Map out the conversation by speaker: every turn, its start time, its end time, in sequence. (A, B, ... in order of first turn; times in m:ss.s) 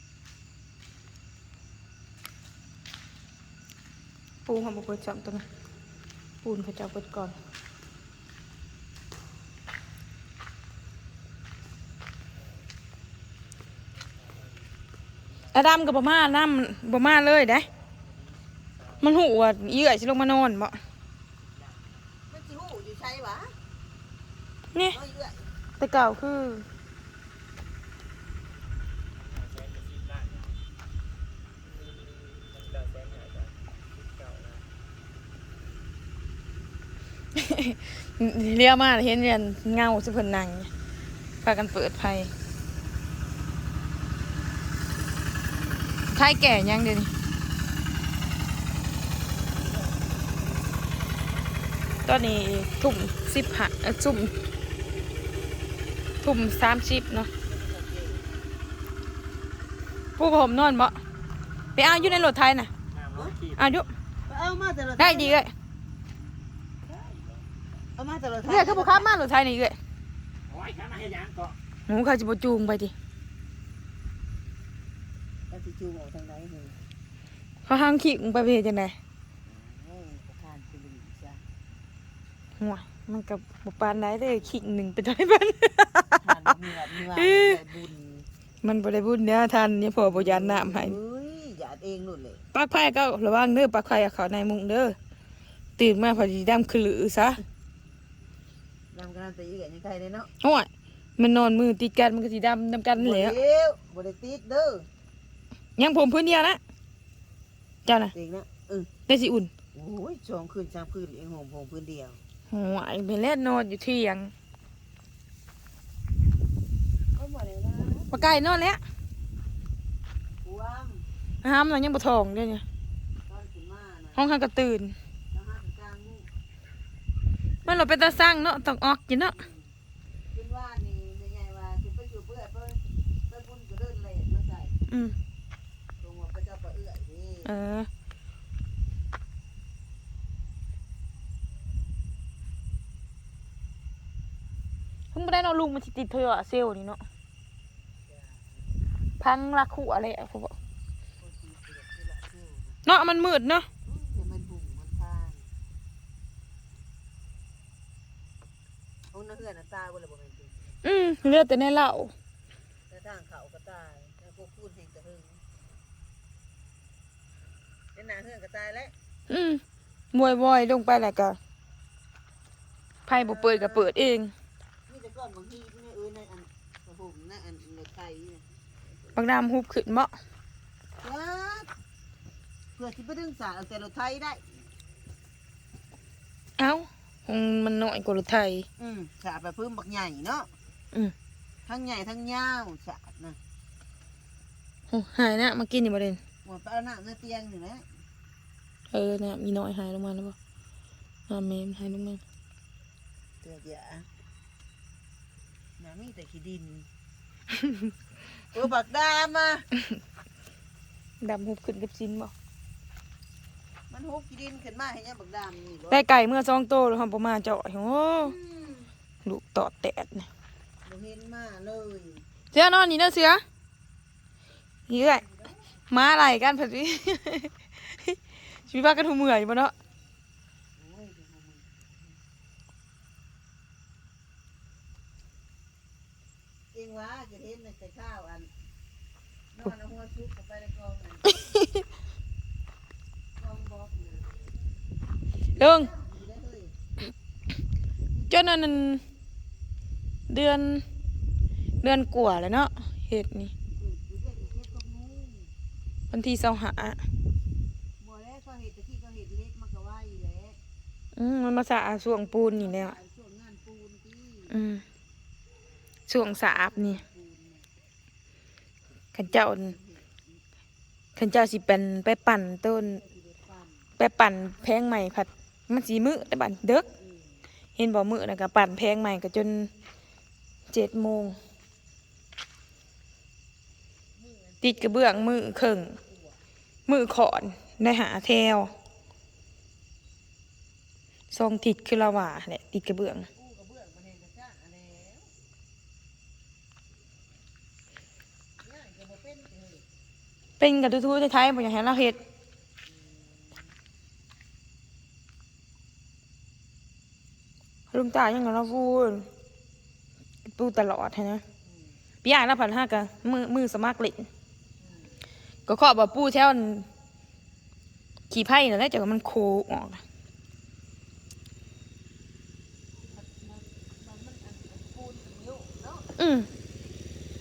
0:04.4-0:05.4 A
0:06.4-0:07.3 A
0:13.9-0:14.7 B
0:15.5-0:17.7 A
0:18.0-0:19.2 B
0:19.0-0:20.8 A
0:21.4-0:22.1 B
0:22.3-0:23.5 C
0:24.9-0:25.4 C
0:25.8-0:26.6 A
0:29.1-0:30.6 B
0:31.6-0:34.6 B
0:37.3-0:40.7 A
0:41.4-0:42.3 A
0:46.1-0:47.1 A
0:49.5-0:50.8 C
0:52.1-0:54.3 A
0:56.2-0:57.3 A
0:57.4-0:58.4 C
1:00.2-1:01.0 A
1:01.8-1:02.7 A
1:01.8-1:02.3 B
1:02.8-1:04.0 B
1:03.6-1:03.9 A
1:04.2-1:05.4 C
1:05.0-1:05.5 A
1:06.8-1:07.5 B
1:08.0-1:09.2 C
1:08.4-1:09.8 A
1:10.5-1:11.6 B
1:11.9-1:12.9 A
1:15.5-1:16.8 C
1:17.6-1:19.0 A
1:19.4-1:21.4 C
1:22.6-1:26.5 A
1:26.1-1:28.3 C
1:27.0-1:27.6 A
1:28.6-1:31.0 A
1:30.0-1:32.4 C
1:32.5-1:35.0 A
1:35.8-1:37.4 A
1:38.9-1:40.3 C
1:40.4-1:43.4 A
1:43.0-1:44.9 C
1:45.8-1:46.6 A
1:47.9-1:48.1 A
1:48.1-1:48.9 C
1:49.1-1:49.5 A
1:49.7-1:52.2 C
1:52.5-1:54.3 A
1:57.1-1:58.4 C
1:58.1-1:58.8 A
2:00.4-2:01.0 C
2:01.4-2:02.6 A
2:03.3-2:04.2 C
2:04.2-2:04.9 A
2:05.3-2:06.3 C
2:07.6-2:09.3 A
2:09.3-2:09.7 C
2:10.3-2:14.8 C
2:14.9-2:15.2 A
2:16.0-2:17.5 C
2:17.4-2:17.9 A
2:25.1-2:27.0 A
2:28.1-2:28.8 C
2:29.2-2:30.6 A
2:31.2-2:32.8 C
2:32.8-2:33.7 A
2:33.8-2:35.5 C
2:39.1-2:40.6 C
2:40.8-2:42.1 A
2:42.9-2:45.4 C
2:47.9-2:48.9 C
2:49.3-2:51.4 A
2:53.1-2:54.3 A
2:53.1-2:53.9 C
2:54.9-2:58.4 C
2:59.1-3:00.1 A
3:01.0-3:01.7 C
3:02.8-3:04.4 C
3:06.6-3:08.6 A
3:08.8-3:10.5 C
3:11.6-3:13.4 C
3:14.9-3:16.2 A
3:16.4-3:17.8 C
3:18.9-3:20.3 A
3:21.3-3:22.2 A
3:23.4-3:24.1 C
3:25.8-3:26.9 C
3:28.5-3:29.6 C
3:31.2-3:32.3 A
3:33.9-3:36.0 C
3:35.9-3:38.3 A
3:38.2-3:38.9 C
3:39.2-3:40.3 A
3:40.8-3:42.2 C
3:42.5-3:43.4 A
3:44.9-3:45.2 A
3:45.0-3:45.6 C
3:45.9-3:47.5 A
3:48.7-3:49.7 A
3:50.8-3:52.2 C
3:56.7-3:58.5 C
3:59.5-4:01.4 C
4:01.5-4:01.8 A
4:03.4-4:04.3 C
4:05.6-4:05.9 A
4:05.6-4:06.8 C
4:08.1-4:08.4 C
4:08.3-4:09.0 A
4:10.3-4:10.8 A
4:11.8-4:13.5 A
4:13.8-4:15.5 C
4:16.1-4:17.0 A
4:18.0-4:20.6 C
4:21.2-4:23.0 A
4:22.5-4:24.6 C
4:24.5-4:24.8 A
4:26.1-4:27.0 A
4:26.4-4:27.7 C
4:29.1-4:29.8 A
4:29.3-4:30.3 C
4:31.2-4:33.0 A
4:32.9-4:33.9 C
4:34.0-4:36.9 A
4:37.0-4:37.4 C
4:37.8-4:39.7 A
4:40.7-4:41.4 A
4:44.1-4:46.4 C
4:44.6-4:46.0 A
4:46.9-4:48.7 A
4:51.3-4:53.3 A
4:53.3-4:55.3 C
4:58.6-4:59.8 C
5:00.6-5:02.2 A
5:02.8-5:03.7 C
5:07.9-5:09.3 A
5:10.4-5:11.4 A
5:11.6-5:12.0 C
5:12.2-5:14.3 A
5:14.8-5:15.2 C
5:15.7-5:16.9 A
5:18.3-5:20.0 A
5:23.0-5:26.1 C
5:26.2-5:26.5 A